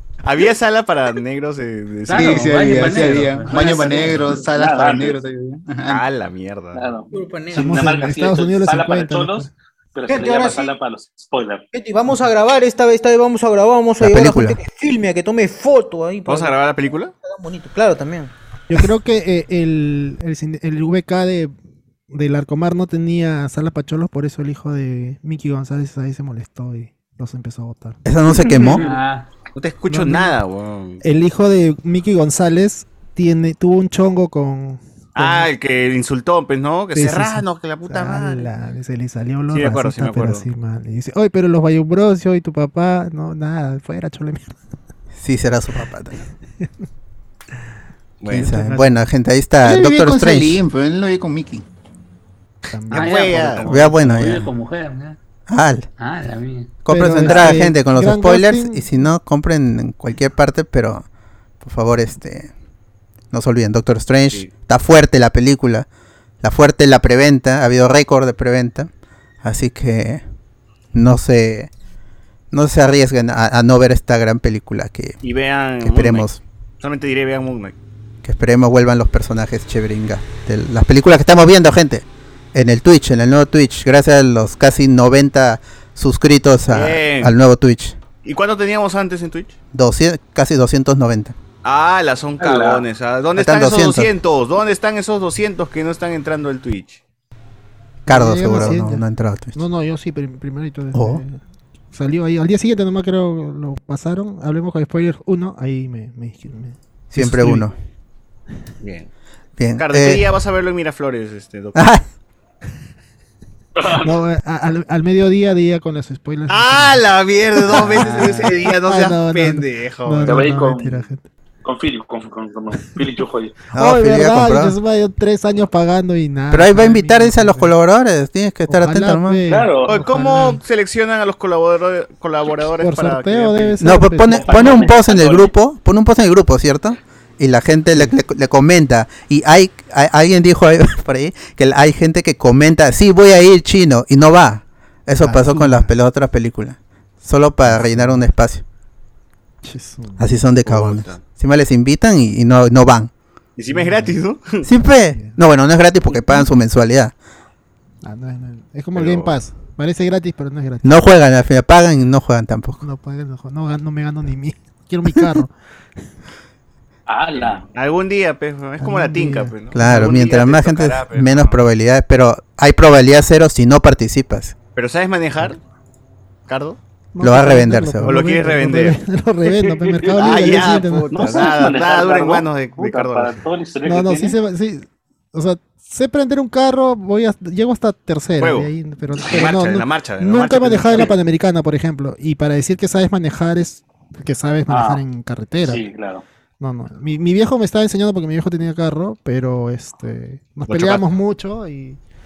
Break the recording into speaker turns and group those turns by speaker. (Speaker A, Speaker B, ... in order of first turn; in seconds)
Speaker A: 0.2-2.7, 5.9-6.8, 16.2-17.1, 29.5-31.0, 35.1-38.5, 39.5-40.5, 48.2-48.5, 52.9-53.7, 75.2-76.3, 76.8-77.7, 86.7-87.3, 88.2-89.5, 91.6-97.0, 108.8-109.1, 109.8-111.9, 116.5-120.4, 129.9-133.8, 150.6-151.2, 153.6-154.7, 158.9-159.3, 167.4-171.6, 174.7-175.6, 176.5-176.8, 178.0-179.0, 180.1-183.4, 188.4-188.7, 189.2-191.1, 200.7-201.1
Speaker B: 2.1-4.2, 28.7-29.3, 52.9-55.2, 56.0-56.7
Speaker C: 2.1-6.0, 49.6-51.6
Speaker D: 3.5-5.2, 6.7-11.6, 28.5-29.0, 92.4-92.8, 113.8-114.0, 120.2-121.0, 121.6-123.5, 129.5-130.0, 134.3-135.5, 167.1-167.7, 181.1-184.4, 194.7-195.0, 195.6-196.2
Speaker E: 7.1-7.8, 10.1-10.7, 11.7-18.3
Speaker F: 7.5-9.5, 18.7-21.5, 22.1-28.0, 29.9-30.4, 31.0-35.5, 36.9-44.6, 48.3-48.9, 52.7-53.7, 56.9-58.9, 98.1-99.0, 99.5-101.4, 101.9-107.7, 114.0-117.0, 117.6-121.2, 123.7-127.7, 128.7-130.6, 132.8-134.6, 137.9-138.2, 145.2-145.9, 147.7-148.2, 149.6-150.3, 153.7-154.1, 158.0-161.0, 162.8-165.5, 168.8-169.9, 177.1-181.3, 183.8-195.8, 196.6-202.0
Speaker G: 14.0-14.6, 28.0-28.8, 45.1-46.2, 48.3-50.6, 53.6-54.5, 55.5-55.9, 56.8-61.0, 61.6-62.5, 63.3-65.9, 66.4-68.9, 69.4-70.2, 70.9-71.7, 72.5-75.2, 75.8-76.4, 78.2-88.0, 89.7-91.3, 93.3-94.1, 98.1-99.6, 100.9-101.2, 107.1-107.7, 109.6-110.2, 111.7-112.0, 123.7-124.8, 126.5-129.4, 133.8-148.6, 150.2-153.1, 154.6-157.1, 160.8-162.8, 169.7-174.5, 177.2-178.1